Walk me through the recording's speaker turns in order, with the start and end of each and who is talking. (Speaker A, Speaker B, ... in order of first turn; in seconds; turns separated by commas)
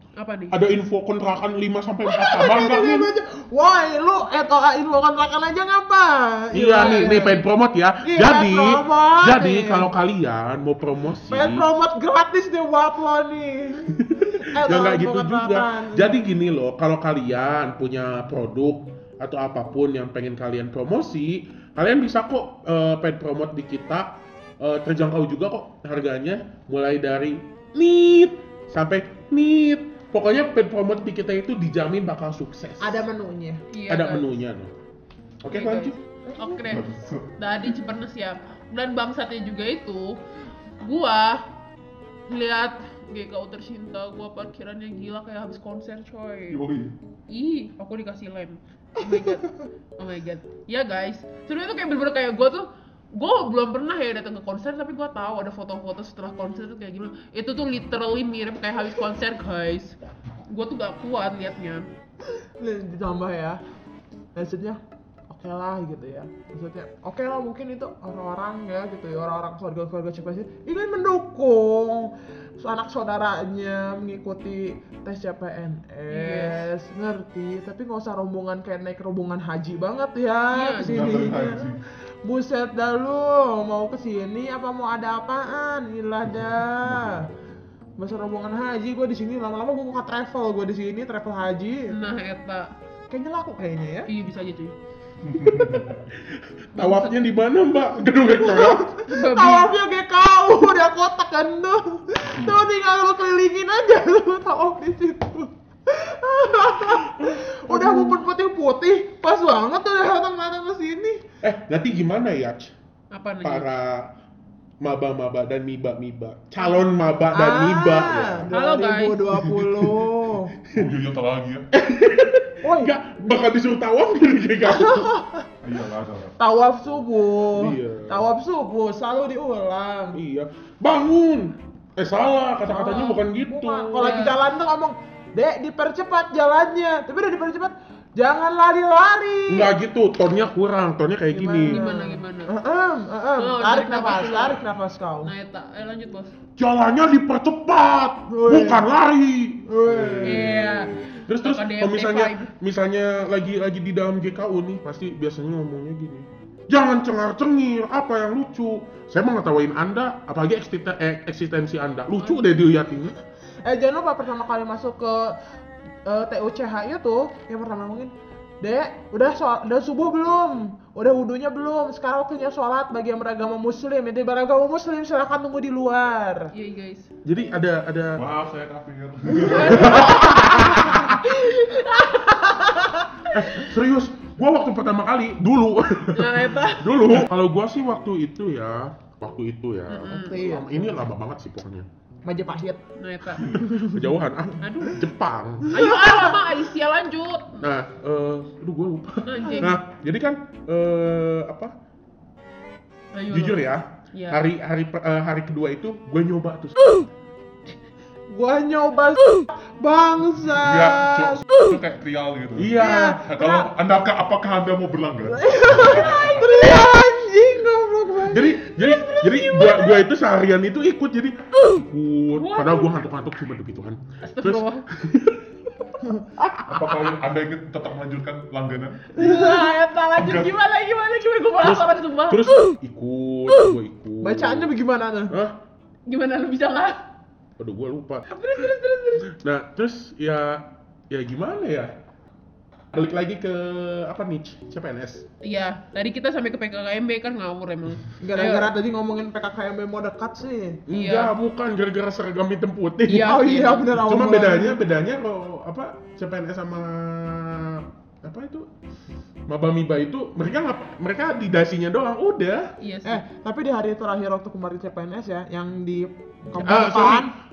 Speaker A: 0.2-0.6, Speaker B: 0.5-3.1, Speaker C: 2.0-7.4, Speaker B: 6.5-11.7, Speaker A: 6.8-7.4, Speaker C: 8.0-9.9, Speaker C: 11.3-16.2, Speaker B: 14.0-33.0, Speaker C: 32.8-33.6, Speaker A: 33.7-34.3, Speaker B: 33.9-34.7, Speaker B: 35.4-36.0, Speaker A: 35.5-40.2, Speaker C: 36.3-36.6, Speaker D: 36.6-37.4, Speaker A: 40.8-41.4, Speaker A: 42.3-46.6, Speaker D: 46.5-46.9, Speaker A: 47.3-61.9, Speaker C: 62.4-63.6, Speaker C: 64.3-81.7, Speaker A: 76.1-76.7, Speaker A: 80.5-81.4, Speaker D: 80.8-81.8, Speaker C: 82.2-87.3, Speaker D: 86.8-87.3, Speaker C: 88.0-92.0, Speaker A: 91.9-92.7, Speaker C: 93.1-94.1, Speaker A: 94.1-94.8, Speaker D: 95.2-96.0, Speaker B: 95.6-98.9, Speaker A: 96.8-97.2, Speaker C: 98.4-111.2, Speaker A: 99.1-99.7, Speaker B: 107.2-108.2, Speaker B: 111.4-112.7, Speaker A: 113.1-113.7, Speaker B: 113.4-114.1, Speaker B: 114.8-118.5, Speaker C: 117.3-120.5, Speaker A: 118.5-119.3, Speaker B: 119.3-120.0, Speaker D: 120.7-121.7, Speaker B: 121.7-125.1, Speaker C: 122.6-122.9, Speaker C: 124.7-125.5, Speaker D: 125.6-126.3, Speaker C: 126.4-130.2, Speaker B: 127.5-128.3, Speaker B: 130.1-134.2, Speaker C: 132.7-139.7, Speaker A: 134.0-134.4, Speaker B: 139.5-141.8, Speaker C: 141.3-145.3, Speaker A: 141.7-142.5, Speaker A: 143.4-144.6, Speaker A: 145.2-146.3, Speaker B: 146.6-150.5, Speaker C: 148.3-148.9, Speaker C: 149.7-150.6, Speaker A: 150.2-152.5, Speaker D: 150.2-150.7, Speaker B: 151.3-163.2, Speaker A: 162.2-162.5, Speaker C: 163.6-165.4, Speaker C: 166.1-176.5, Speaker A: 176.5-177.1, Speaker B: 177.2-178.2, Speaker D: 178.2-180.8, Speaker A: 179.4-180.7, Speaker C: 179.4-180.4, Speaker B: 179.6-181.2, Speaker A: 181.2-182.7, Speaker C: 182.2-183.2, Speaker B: 183.3-191.9, Speaker A: 186.1-187.1, Speaker A: 189.9-190.5, Speaker C: 190.1-191.0, Speaker C: 192.2-192.8, Speaker A: 193.0-193.5, Speaker C: 193.4-194.1, Speaker B: 193.5-195.8, Speaker A: 194.6-195.1, Speaker C: 195.7-196.4, Speaker A: 195.7-197.7, Speaker B: 197.6-201.7, Speaker A: 199.2-199.8, Speaker C: 199.4-199.7, Speaker A: 203.1-204.4, Speaker B: 203.3-206.8, Speaker C: 208.3-211.4, Speaker D: 210.5-216.7, Speaker B: 212.6-213.2, Speaker C: 212.8-213.7, Speaker C: 215.3-220.0, Speaker B: 218.3-225.5, Speaker A: 222.4-222.9, Speaker A: 224.2-224.8, Speaker C: 226.0-226.3, Speaker B: 226.4-227.1, Speaker D: 226.6-229.5, Speaker C: 229.2-229.7, Speaker A: 229.2-232.6, Speaker D: 230.2-230.5, Speaker B: 231.6-234.7, Speaker C: 234.2-235.3, Speaker B: 235.3-235.6, Speaker A: 236.1-237.0, Speaker B: 237.6-238.4, Speaker A: 238.3-239.3, Speaker B: 239.2-241.9, Speaker B: 242.9-245.3, Speaker A: 245.4-248.7, Speaker C: 248.2-250.8, Speaker B: 250.9-258.7, Speaker A: 250.9-251.3, Speaker A: 253.1-253.9, Speaker C: 253.1-254.8, Speaker B: 259.5-262.7, Speaker A: 262.8-263.2, Speaker C: 263.1-267.3, Speaker B: 266.6-267.3